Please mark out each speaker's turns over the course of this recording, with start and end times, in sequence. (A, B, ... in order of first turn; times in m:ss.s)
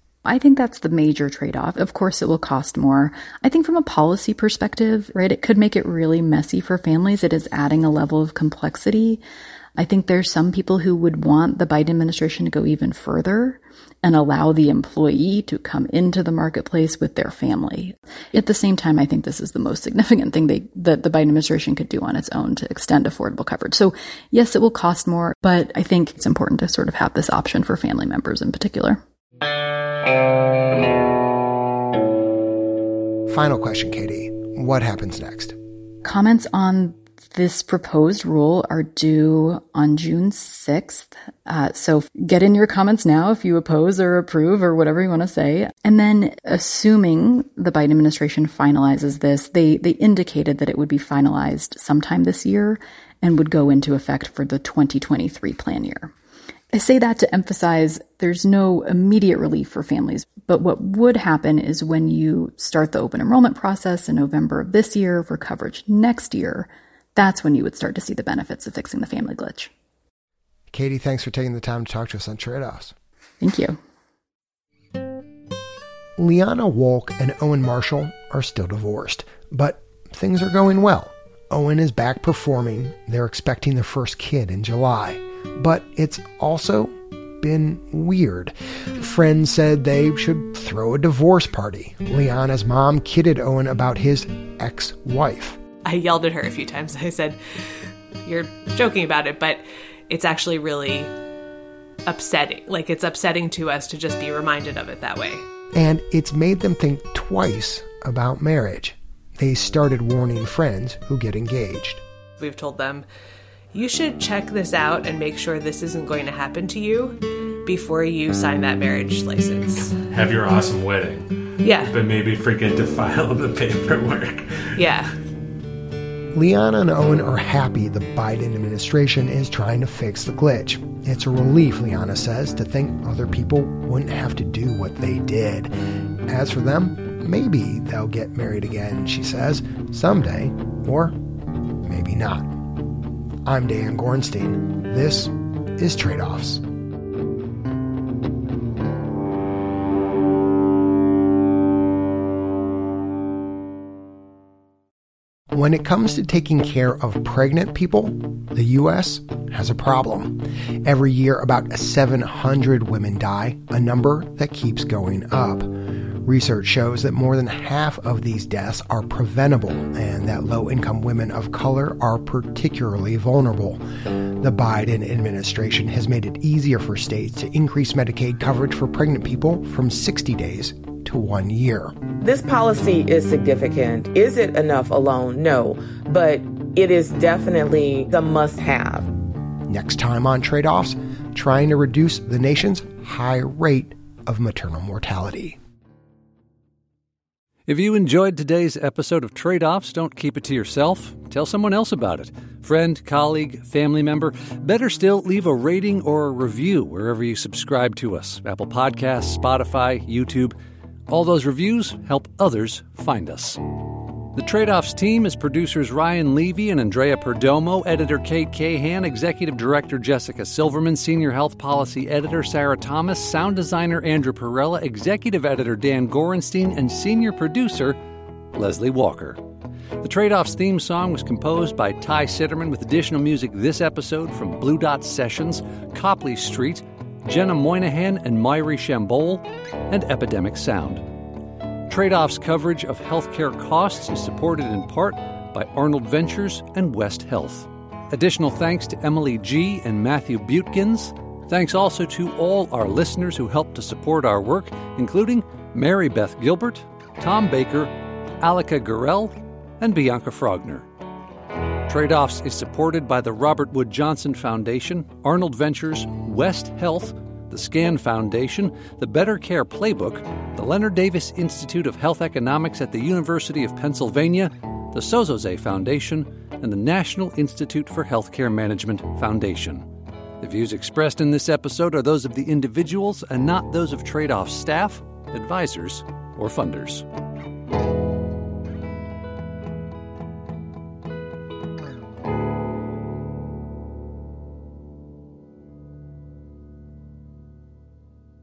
0:00.2-0:09.2 A
0:09.8-0:29.0 A
0:33.3-0:35.6 B
0:36.0-0:56.1 A
0:56.7-1:09.7 A
1:10.7-1:12.9 B
1:13.4-1:13.8 A
1:16.2-1:35.6 B
1:35.8-1:41.1 C
1:42.1-1:45.4 C
1:45.8-1:52.0 B
1:52.4-1:53.1 C
1:53.7-2:00.0 C
2:00.0-2:04.8 D
2:01.6-2:01.9 C
2:04.8-2:05.1 C
2:06.3-2:15.7 B
2:16.3-2:21.2 B
2:21.8-2:22.5 B
2:23.4-2:26.6 B
2:35.5-2:45.7 B
2:46.2-2:53.8 B
2:54.4-3:02.0 B
3:02.2-3:09.1 E
3:09.7-3:15.6 B
3:17.7-3:30.6 F
3:31.1-3:33.6 F
3:34.4-3:48.0 F
3:48.5-3:49.4 F
3:50.0-4:01.0 F
4:01.9-4:20.9 F
4:21.9-4:39.9 F
4:40.4-4:47.0 F